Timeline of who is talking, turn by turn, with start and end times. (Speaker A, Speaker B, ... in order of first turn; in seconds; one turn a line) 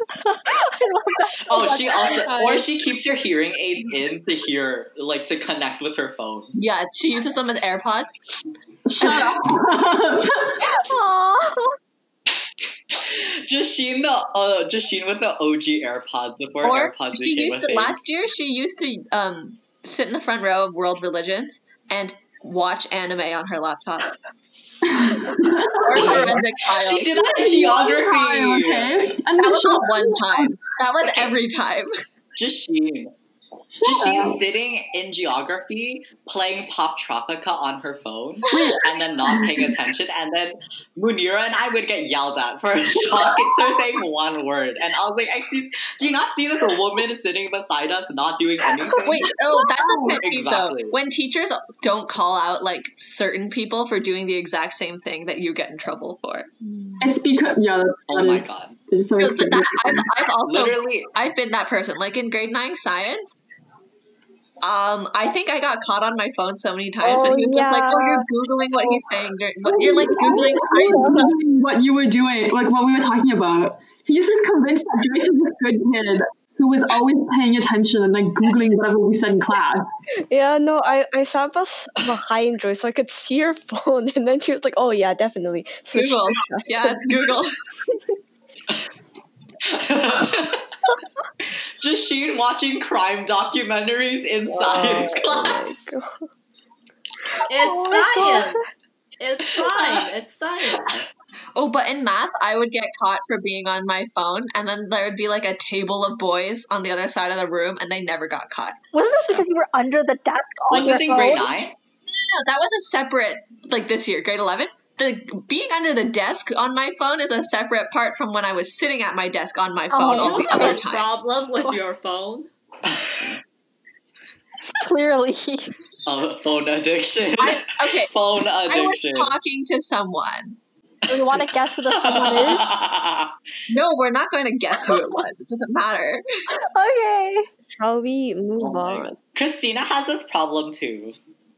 Speaker A: 0.3-2.7
Speaker B: 1.5-6.5
Speaker C: 6.5-8.2
Speaker D: 8.9-10.6
Speaker C: 9.0-9.4
Speaker A: 10.7-11.7
Speaker B: 12.9-18.0
Speaker C: 16.6-24.1
Speaker D: 24.8-26.4
Speaker C: 25.7-27.2
Speaker B: 26.0-28.9
Speaker D: 27.2-30.6
Speaker C: 29.4-31.9
Speaker B: 31.1-31.4
Speaker B: 32.4-33.1
Speaker D: 33.8-34.4
Speaker B: 33.8-49.3
Speaker D: 38.5-39.8
Speaker D: 43.0-43.5
Speaker C: 49.0-56.5
Speaker D: 49.6-50.2
Speaker B: 50.1-51.0
Speaker D: 57.0-60.1
Speaker B: 58.1-58.8
Speaker C: 59.2-63.4
Speaker B: 60.5-61.1
Speaker C: 64.6-71.3
Speaker E: 67.0-69.0
Speaker D: 69.7-79.8
Speaker E: 70.1-71.3
Speaker E: 80.3-87.4
Speaker C: 85.9-87.6
Speaker B: 89.7-90.7
Speaker B: 91.8-95.7
Speaker E: 94.5-96.3
Speaker F: 97.5-98.6
Speaker A: 97.5-98.6
Speaker F: 99.2-100.9
Speaker B: 99.7-100.1
Speaker B: 100.7-101.0
Speaker C: 101.5-108.8
Speaker A: 108.9-111.5
Speaker B: 110.7-111.8
Speaker C: 112.1-121.1
Speaker A: 119.9-120.8
Speaker F: 120.1-122.5
Speaker B: 122.9-123.4
Speaker A: 124.8-125.7
Speaker B: 126.1-129.4
Speaker C: 127.4-128.1
Speaker C: 128.7-130.6
Speaker A: 131.1-132.7
Speaker B: 131.2-133.3
Speaker C: 133.7-136.2
Speaker A: 136.6-137.5
Speaker E: 137.7-139.2
Speaker B: 138.6-141.2